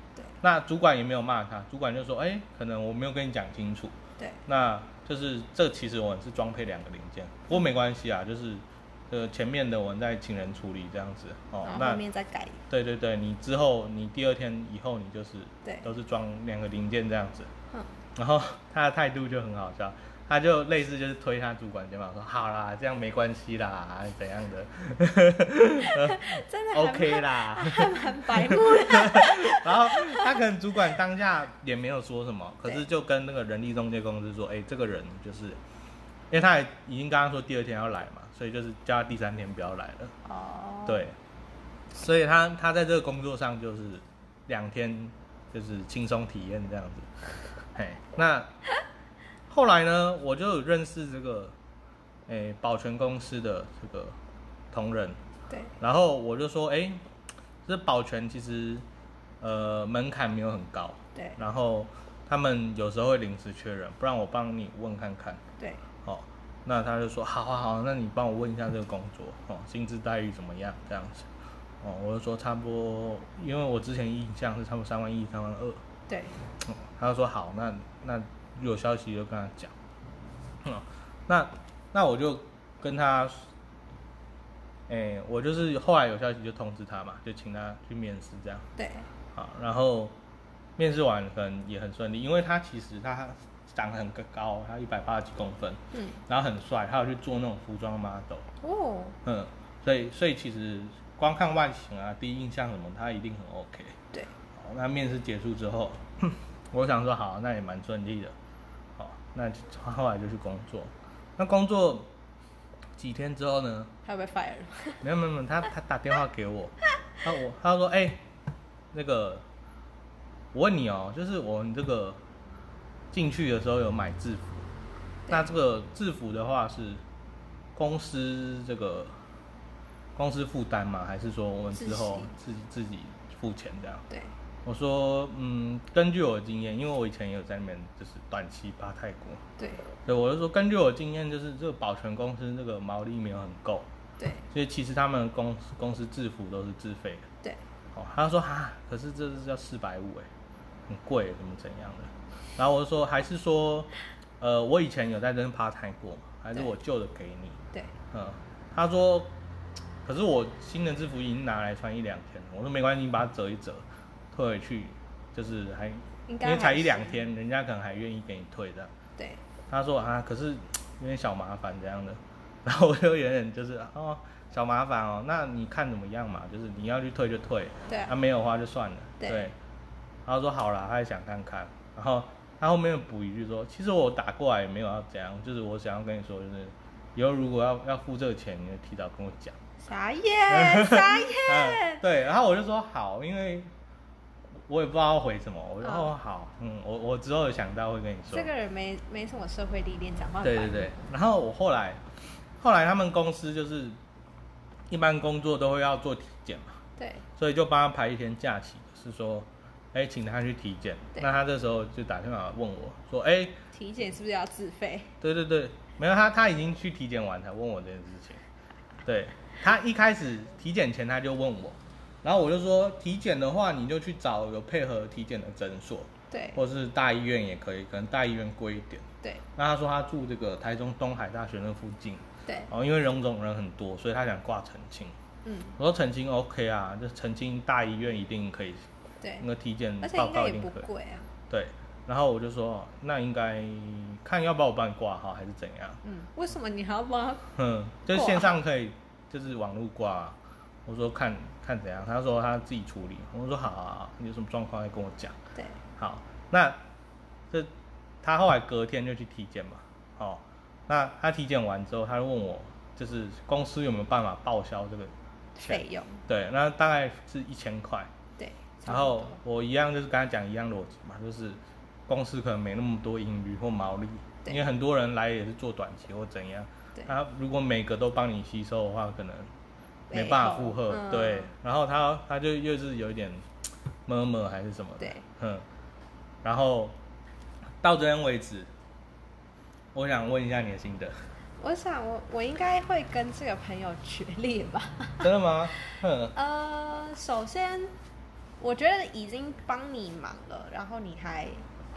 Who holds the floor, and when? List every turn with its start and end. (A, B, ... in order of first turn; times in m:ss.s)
0:00.4-0:03.9 A
0:04.4-0:12.0 A
0:11.6-0:12.6 B
0:12.7-0:17.5 A
0:18.2-0:35.6 A
0:25.8-0:30.4 B
0:36.3-0:40.1 A
0:40.2-0:41.0 B
0:40.8-0:41.1 A
0:41.9-0:47.1 A
0:47.7-0:48.5 A
0:49.5-0:51.5 A
0:52.3-0:54.2 A
0:54.7-0:55.2 A
0:55.5-0:55.7 B
0:55.8-0:57.0 A
0:57.6-0:58.8 A
0:59.4-1:05.4 A
1:06.0-1:11.3 A
1:11.8-1:15.8 A
1:16.1-1:16.3 B
1:16.6-1:19.7 A
1:20.6-1:23.4 A
1:24.9-1:28.6 A
1:28.8-1:29.1 B
1:29.3-1:30.1 A
1:30.8-1:38.4 A
1:35.9-1:36.2 B
1:38.6-1:39.2 B
1:39.2-1:44.0 A
1:44.5-1:48.3 A
1:49.0-1:52.1 A
1:53.0-1:53.9 A
1:54.0-1:55.0 B
1:55.0-1:58.2 A
1:58.9-1:59.4 A
2:00.5-2:02.2 A
2:03.1-2:04.6 A
2:05.3-2:07.0 A
2:07.7-2:09.2 A
2:10.2-2:14.0 A
2:11.7-2:12.3 B
2:14.6-2:19.4 A
2:19.6-2:19.8 B
2:20.0-2:23.9 A
2:24.2-2:24.4 B
2:24.5-2:27.3 A
2:27.9-2:30.3 A
2:30.9-2:37.6 A
2:38.1-2:39.3 A
2:40.0-2:48.9 A
2:46.3-2:47.2 B
2:49.7-2:59.5 A
2:59.2-2:59.5 B
3:00.2-3:09.6 A
3:09.8-3:12.0 B
3:10.5-3:13.7 A
3:14.7-3:18.5 A
3:15.8-3:16.1 B
3:18.3-3:20.9 B
3:20.4-3:22.0 A
3:22.6-3:24.0 A
3:24.9-3:26.8 A
3:27.0-3:27.2 B
3:27.4-3:33.6 A
3:33.7-3:35.1 B
3:35.2-3:38.4 A
3:39.0-3:49.0 A
3:46.3-3:46.6 B
3:49.6-3:55.1 A
3:55.4-3:55.8 B
3:55.8-3:58.8 A
3:59.2-3:59.5 B
3:59.4-4:00.9 A
4:00.0-4:01.3 B
4:01.5-4:06.0 A
4:06.0-4:07.5 B
4:07.5-4:15.4 A
4:08.1-4:08.5 B
4:15.5-4:15.8 B
4:16.0-4:16.8 A
4:18.2-4:28.1 A
4:25.6-4:26.2 B
4:28.4-4:29.4 B
4:28.8-4:39.5 A
4:40.1-4:41.5 B
4:40.1-4:43.4 A
4:44.0-4:45.6 A
4:46.4-4:47.0 A
4:47.8-4:48.7 A
4:49.9-4:51.2 A
4:51.6-4:55.3 B
4:55.2-4:56.3 A
4:56.3-4:57.9 B
4:58.6-5:01.6 B